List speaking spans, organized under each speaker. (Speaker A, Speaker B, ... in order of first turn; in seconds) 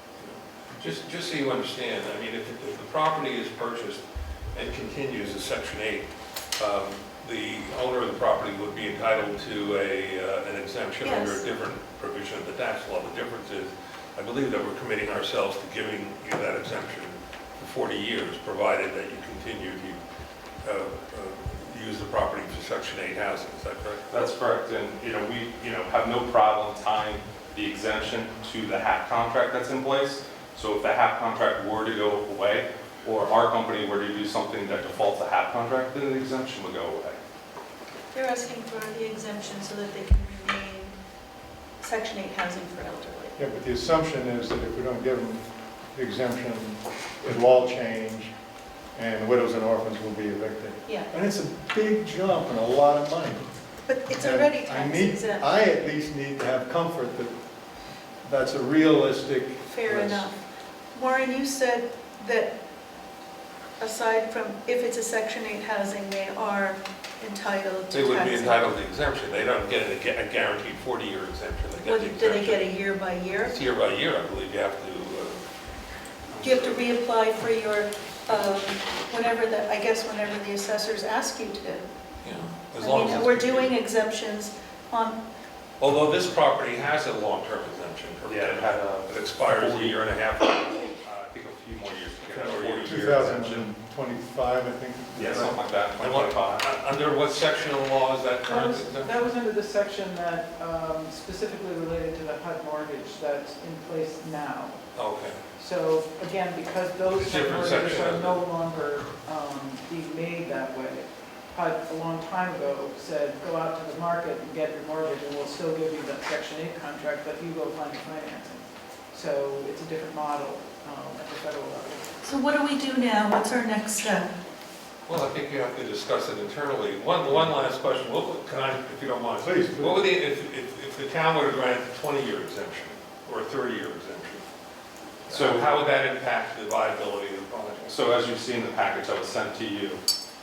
Speaker A: 0.2-4.0, 4.5-20.0, 20.6-24.1, 67.9-72.8, 73.4-75.5, 76.3-76.8, 82.2-83.7, 85.8-91.0, 92.3-93.4, 96.0-99.2, 105.0-105.4, 107.1-108.4, 125.1-134.5, 135.3-138.1
Speaker B: 11.0-11.5, 38.1-41.0, 41.8-43.4, 53.9-55.5, 59.6-60.4, 60.9-62.5, 63.8-68.7, 71.8-73.6, 76.4-81.9, 82.7-85.2, 122.2-124.3
Speaker C: 24.1-37.2, 88.3-90.0, 91.0-93.7, 95.2-96.7, 135.3-135.7, 137.9-140.0
Speaker D: 43.4-48.3, 49.0-53.5, 54.0-57.4, 58.2-60.3, 92.8-95.6, 129.4-130.1
Speaker E: 98.5-104.8, 105.6-122.2